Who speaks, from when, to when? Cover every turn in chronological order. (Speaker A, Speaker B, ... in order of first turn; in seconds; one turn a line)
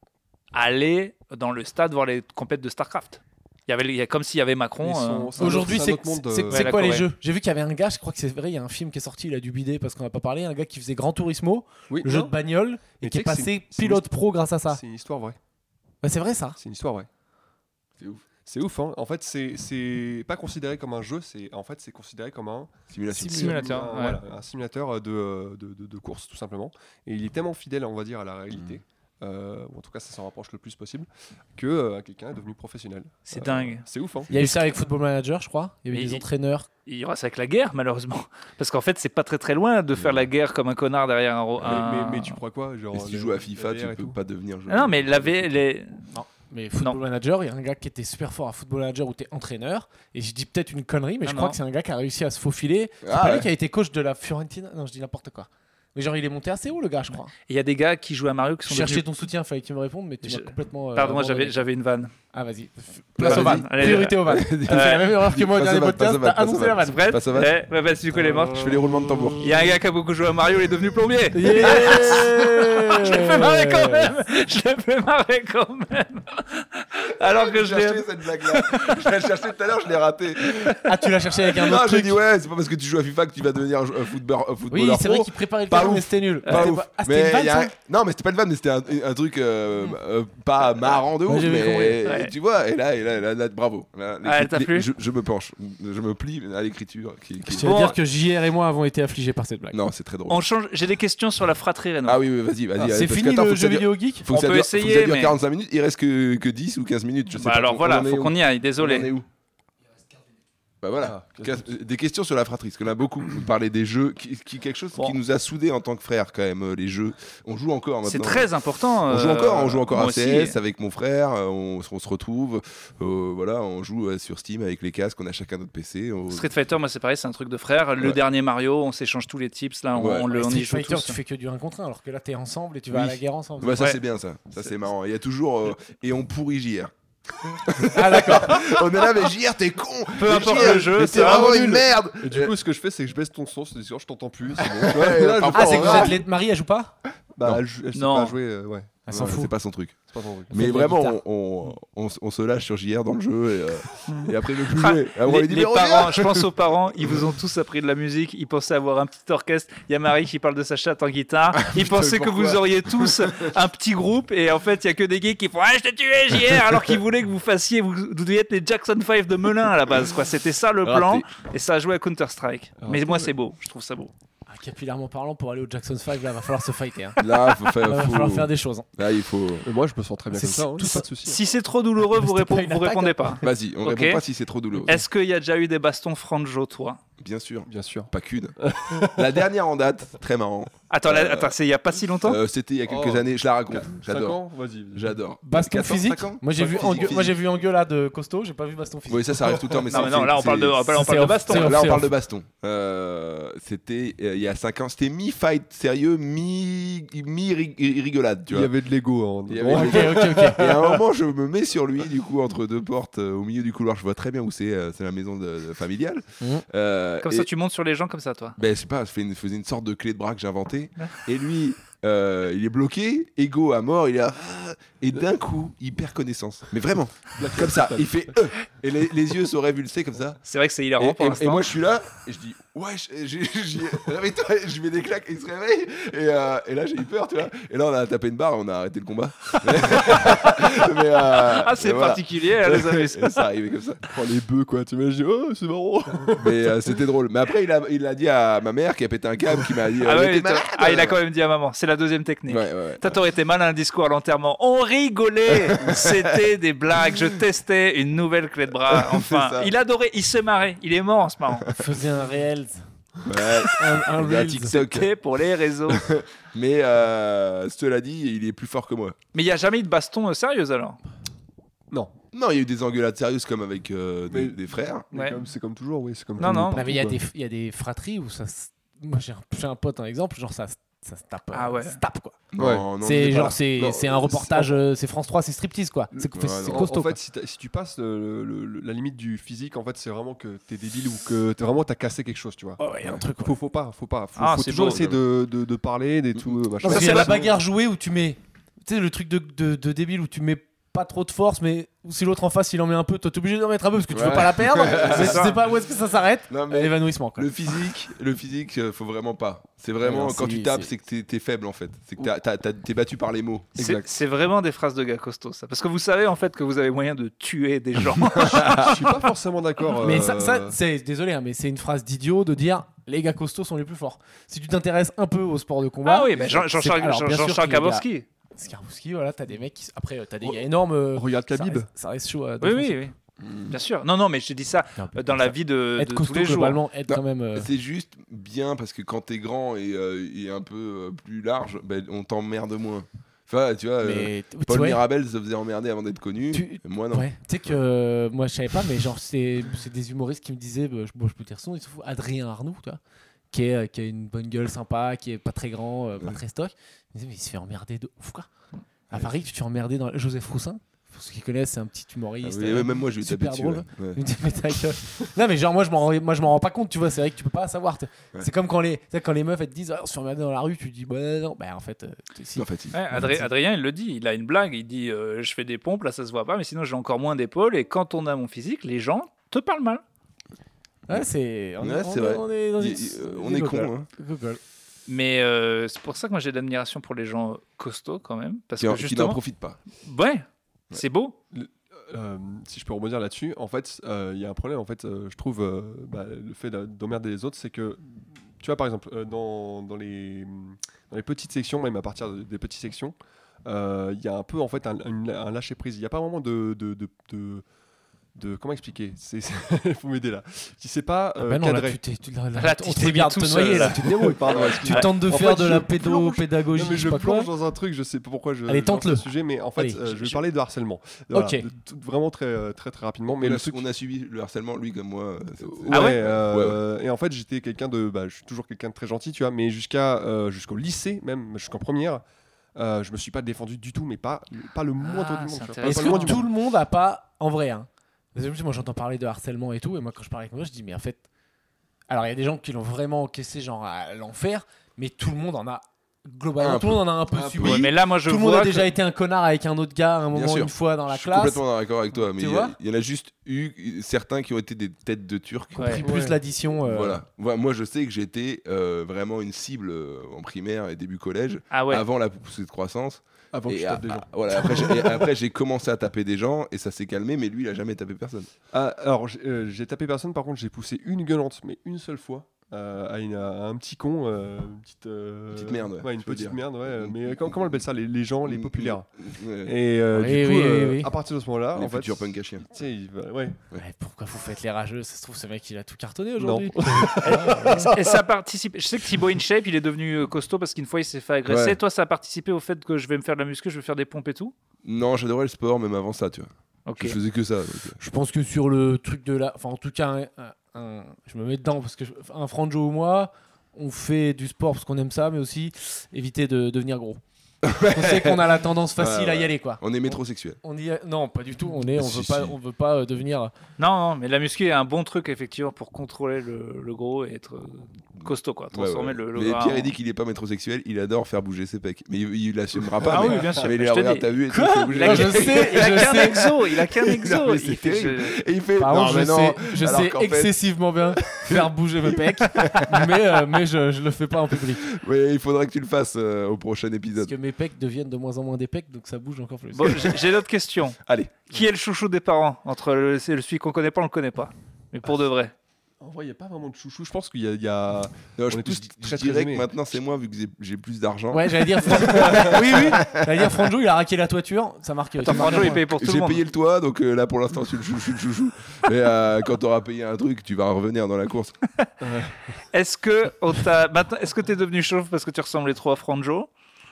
Speaker A: 0.5-5.8
Speaker B: 4.8-7.0
Speaker C: 5.4-14.8
Speaker A: 6.5-7.0
Speaker B: 11.9-12.3
Speaker B: 13.0-14.1
Speaker B: 14.7-15.4
Speaker C: 16.0-16.6
Speaker B: 16.6-17.1
Speaker B: 18.4-22.7
Speaker D: 22.9-23.6
Speaker C: 23.1-23.5
Speaker B: 23.3-34.3
Speaker A: 23.3-24.2
Speaker A: 33.3-33.8
Speaker C: 34.3-36.7
Speaker A: 35.9-36.2
Speaker A: 36.9-42.4
Speaker D: 39.9-40.3
Speaker B: 41.6-44.2
Speaker D: 42.9-45.5
Speaker A: 44.7-46.1
Speaker C: 46.1-57.3
Speaker A: 51.2-51.6
Speaker D: 53.0-53.5
Speaker A: 57.5-59.0
Speaker C: 58.7-61.6
Speaker A: 60.2-62.1
Speaker C: 62.3-67.1
Speaker D: 63.1-67.5
Speaker A: 63.2-65.1
Speaker A: 66.8-68.7
Speaker D: 68.2-69.7
Speaker A: 69.4-79.1
Speaker C: 71.3-74.1
Speaker D: 77.2-80.8
Speaker A: 80.4-80.8
Speaker C: 80.8-82.2
Speaker D: 81.5-98.0
Speaker C: 84.7-87.7
Speaker A: 86.5-86.7
Speaker C: 91.2-92.1
Speaker A: 92.0-92.3
Speaker A: 94.2-94.9
Speaker C: 97.5-99.8
Speaker A: 97.6-98.0
Speaker D: 99.7-100.4
Speaker A: 100.3-102.2
Speaker D: 102.0-109.2
Speaker C: 102.8-104.3
Speaker A: 104.3-105.3
Speaker A: 107.3-109.1
Speaker D: 110.8-118.5
Speaker B: 111.0-111.7
Speaker A: 118.0-120.6
Speaker D: 119.0-126.5
Speaker A: 126.3-131.2
Speaker D: 129.9-130.3
Speaker C: 130.3-133.8
Speaker D: 132.9-136.9
Speaker D: 137.5-142.5
Speaker C: 137.9-138.8
Speaker A: 140.2-141.5
Speaker B: 140.4-146.2
Speaker D: 144.6-146.2
Speaker C: 145.5-146.9
Speaker B: 147.3-149.0
Speaker A: 147.9-148.3
Speaker C: 149.1-149.5
Speaker D: 149.1-150.0
Speaker B: 150.1-150.6
Speaker D: 150.5-156.5
Speaker C: 150.5-151.2
Speaker A: 154.1-174.1
Speaker D: 161.5-163.5
Speaker D: 170.8-171.3
Speaker B: 172.8-173.3
Speaker C: 174.5-178.9
Speaker D: 177.2-179.7
Speaker B: 179.6-181.4
Speaker C: 180.3-181.1
Speaker A: 181.2-184.2
Speaker C: 182.1-183.4
Speaker D: 183.4-185.0
Speaker A: 184.8-187.0
Speaker D: 187.2-191.6
Speaker B: 187.7-189.4
Speaker A: 190.9-192.4
Speaker D: 192.2-194.4
Speaker B: 192.8-195.2
Speaker D: 194.9-197.4
Speaker C: 195.4-199.8
Speaker B: 196.6-197.2
Speaker D: 199.1-208.7
Speaker A: 199.9-201.8
Speaker C: 200.9-202.1
Speaker B: 208.5-211.0
Speaker D: 209.5-217.5
Speaker C: 209.7-210.6
Speaker A: 217.2-218.6
Speaker D: 218.6-230.4
Speaker B: 227.3-228.4
Speaker A: 230.4-231.7
Speaker D: 231.0-244.0
Speaker A: 241.3-243.4
Speaker B: 244.1-246.7
Speaker D: 246.4-251.2
Speaker A: 250.0-261.7
Speaker D: 252.5-253.1
Speaker D: 255.5-256.4
Speaker D: 257.1-257.4
Speaker D: 258.9-259.7
Speaker C: 261.7-262.8
Speaker D: 263.2-265.1
Speaker C: 263.7-264.8
Speaker A: 264.7-266.0
Speaker D: 265.9-269.1
Speaker A: 269.3-271.0
Speaker D: 272.3-275.0
Speaker B: 274.3-277.2
Speaker A: 275.1-275.4
Speaker A: 276.4-276.8
Speaker C: 276.7-282.4
Speaker A: 281.5-282.0
Speaker D: 282.5-284.7
Speaker B: 282.6-282.9
Speaker C: 283.0-287.1
Speaker D: 286.1-286.9
Speaker B: 286.6-292.8
Speaker C: 292.8-293.6
Speaker B: 293.4-297.5
Speaker A: 294.4-295.1
Speaker D: 294.9-295.2
Speaker C: 296.8-307.5
Speaker A: 296.8-297.4
Speaker D: 304.1-305.5
Speaker A: 305.0-305.6
Speaker D: 306.5-313.7
Speaker C: 310.0-310.9
Speaker B: 313.8-314.1
Speaker A: 313.8-319.0
Speaker D: 318.4-318.9
Speaker B: 318.6-320.8
Speaker C: 320.0-333.0
Speaker A: 326.0-328.2
Speaker B: 331.1-331.9
Speaker A: 332.6-333.1
Speaker D: 333.4-333.7
Speaker A: 333.7-336.8
Speaker C: 335.0-337.7
Speaker D: 337.1-347.3
Speaker C: 344.0-345.0
Speaker C: 346.5-353.0
Speaker C: 353.5-358.5
Speaker C: 359.1-373.5
Speaker D: 362.4-364.2
Speaker D: 372.6-373.0
Speaker A: 372.9-380.0
Speaker C: 381.1-384.6
Speaker D: 381.8-384.1
Speaker A: 385.1-389.4
Speaker D: 388.8-389.8
Speaker A: 390.0-391.3
Speaker B: 391.5-407.6
Speaker B: 408.4-412.0
Speaker C: 411.4-417.5
Speaker A: 412.6-414.0
Speaker B: 413.7-423.8
Speaker D: 414.5-414.8
Speaker C: 418.7-420.4
Speaker C: 421.3-421.6
Speaker D: 423.3-426.8
Speaker B: 425.6-432.2
Speaker A: 425.9-426.2
Speaker B: 432.7-436.5
Speaker A: 435.0-436.4
Speaker C: 435.8-441.2
Speaker C: 442.1-451.6
Speaker D: 446.6-447.9
Speaker A: 447.6-448.9
Speaker D: 450.3-456.0
Speaker C: 452.3-452.8
Speaker A: 455.8-456.0
Speaker C: 455.8-457.2
Speaker B: 456.0-456.4
Speaker D: 456.8-468.5
Speaker A: 461.7-462.0
Speaker B: 463.5-465.3
Speaker B: 468.7-479.1
Speaker D: 475.5-477.7
Speaker D: 478.4-479.7
Speaker B: 479.6-483.6
Speaker C: 480.1-481.1
Speaker D: 481.7-482.6
Speaker C: 483.7-487.9
Speaker B: 486.4-488.2
Speaker A: 487.3-494.5
Speaker D: 491.4-491.8
Speaker D: 494.8-498.0
Speaker A: 496.9-497.2
Speaker C: 498.0-507.2
Speaker D: 507.6-510.6
Speaker C: 507.8-513.5
Speaker D: 511.9-512.5
Speaker A: 513.8-519.9
Speaker D: 518.2-530.5
Speaker B: 523.0-523.7
Speaker A: 523.0-524.3
Speaker C: 524.5-526.4
Speaker A: 524.9-528.4
Speaker C: 528.8-534.9
Speaker D: 531.2-533.4
Speaker D: 534.5-537.3
Speaker C: 537.2-540.1
Speaker A: 539.7-541.0
Speaker D: 539.9-540.2
Speaker D: 541.0-541.5
Speaker A: 541.5-545.5
Speaker B: 546.0-549.7
Speaker D: 548.4-553.5
Speaker C: 551.3-555.8
Speaker A: 555.2-556.4
Speaker D: 555.4-561.5
Speaker B: 562.0-562.5
Speaker A: 562.7-566.5